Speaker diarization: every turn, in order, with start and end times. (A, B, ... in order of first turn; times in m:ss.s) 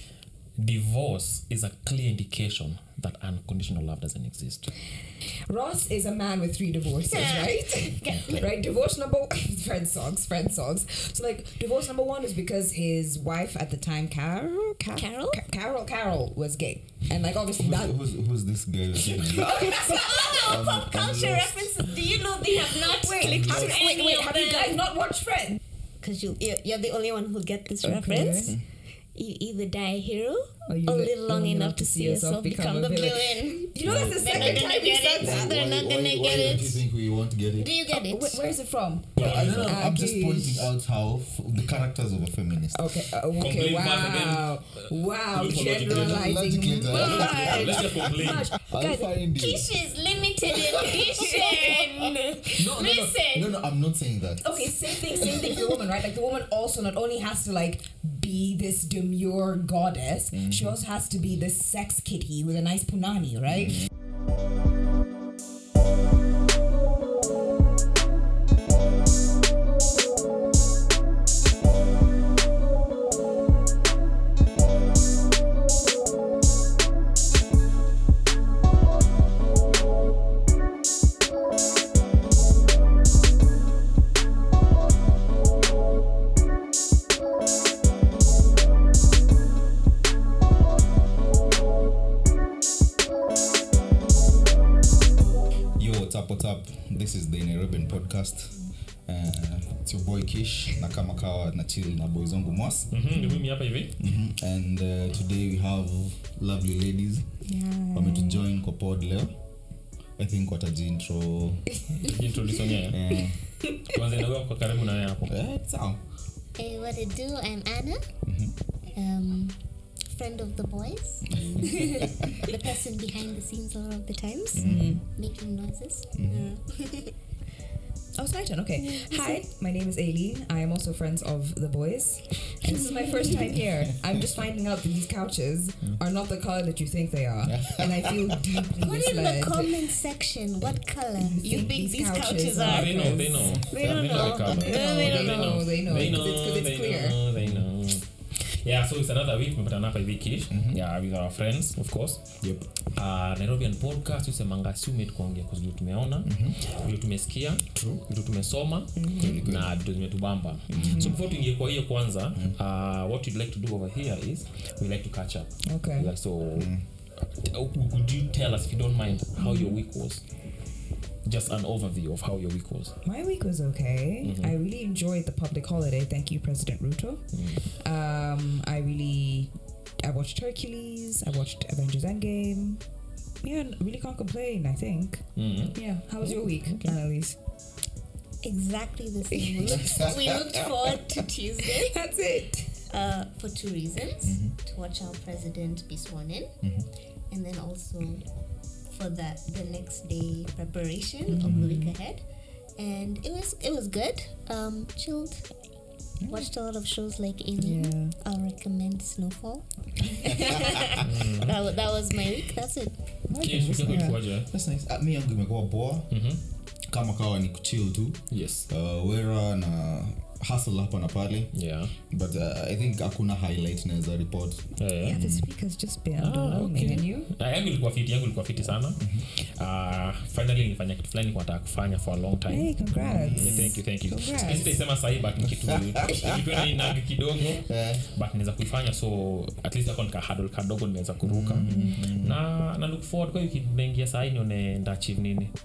0:00.6-0:04.7 A
0:05.5-0:18.0 B
0:07.0-0:08.5 C
0:14.9-0:15.4 C
0:17.6-0:21.9 D
0:19.1-0:24.8 C
0:19.2-0:20.4 B
0:22.5-0:25.6 B
0:23.2-0:23.8 D
0:26.0-0:28.6 C
0:27.8-0:28.5 B
0:29.1-0:36.8 C
0:30.6-0:35.6 B
0:33.8-0:37.7 D
0:37.6-0:38.4 C
0:37.9-0:40.7 B
0:39.2-0:39.9 A
0:39.2-0:42.9 D
0:42.7-0:49.1 B
0:43.4-0:48.5 A
0:45.8-0:49.7 D
0:46.8-0:48.0 C
0:49.3-0:53.5 C
0:50.5-0:51.8 D
0:51.1-0:51.8 B
0:52.6-0:55.7 D
0:54.4-1:03.8 B
1:00.3-1:00.7 D
1:35.8-1:42.9 D
1:42.9-1:44.0 A
1:44.0-1:47.4 D
1:47.5-1:48.4 B
1:47.9-1:49.3 D
1:50.2-1:51.6 D
1:51.7-1:52.5 B
1:52.0-1:53.2 A
1:52.9-1:53.4 D
1:53.8-1:55.3 A
1:55.2-1:56.0 D
1:56.6-1:58.0 C
1:58.2-1:58.5 D
1:58.9-2:07.1 C
2:01.3-2:02.4 D
2:04.5-2:05.0 D
2:04.6-2:05.0 B
2:06.1-2:06.5 D
2:08.2-2:19.9 B
2:08.9-2:09.4 C
2:12.7-2:13.4 C
2:17.4-2:18.4 D
2:18.8-2:25.7 C
2:21.2-2:23.6 B
2:22.6-2:50.2 A
2:23.4-2:26.2 D
2:24.5-2:27.2 B
2:27.4-2:27.7 D
2:30.5-2:30.8 D
2:32.4-2:32.7 D
2:36.2-2:36.6 D
2:37.7-2:38.0 D
2:39.0-2:39.4 B
2:39.2-2:39.7 D
2:40.7-2:41.1 B
2:40.7-2:41.2 D
2:45.6-2:46.1 B
2:46.6-2:46.8 D
2:49.4-2:49.8 B
2:51.2-2:52.9 A
2:53.0-2:59.5 B
2:54.2-2:54.5 A
2:57.3-2:57.6 A
3:00.0-3:02.8 B
3:03.4-3:05.2 B
3:05.4-3:06.9 A
3:05.7-3:07.4 B
3:08.4-3:12.0 C
3:09.3-3:09.9 B
3:09.6-3:10.8 D
3:11.6-3:12.7 B
3:12.9-3:16.5 C
3:14.2-3:14.6 D
3:16.6-3:16.9 D
3:17.3-3:18.2 C
3:18.9-3:22.2 C
3:21.3-3:21.9 B
3:22.8-3:25.5 C
3:26.2-3:26.5 D
3:26.2-3:32.9 C
3:27.6-3:28.1 B
3:30.9-3:31.6 A
3:33.3-3:36.2 D
3:33.4-3:34.5 A
3:33.8-3:34.2 B
3:36.1-3:36.4 A
3:36.9-3:45.5 D
3:38.3-3:38.7 A
3:41.5-3:41.9 A
3:44.8-3:45.2 A
3:45.0-3:47.3 B
3:46.2-4:05.5 A
3:49.0-3:49.2 D
3:52.5-3:54.7 B
3:53.0-3:53.8 D
3:55.4-3:56.9 D
3:57.5-3:58.0 D
4:01.2-4:02.4 D
4:01.6-4:02.0 B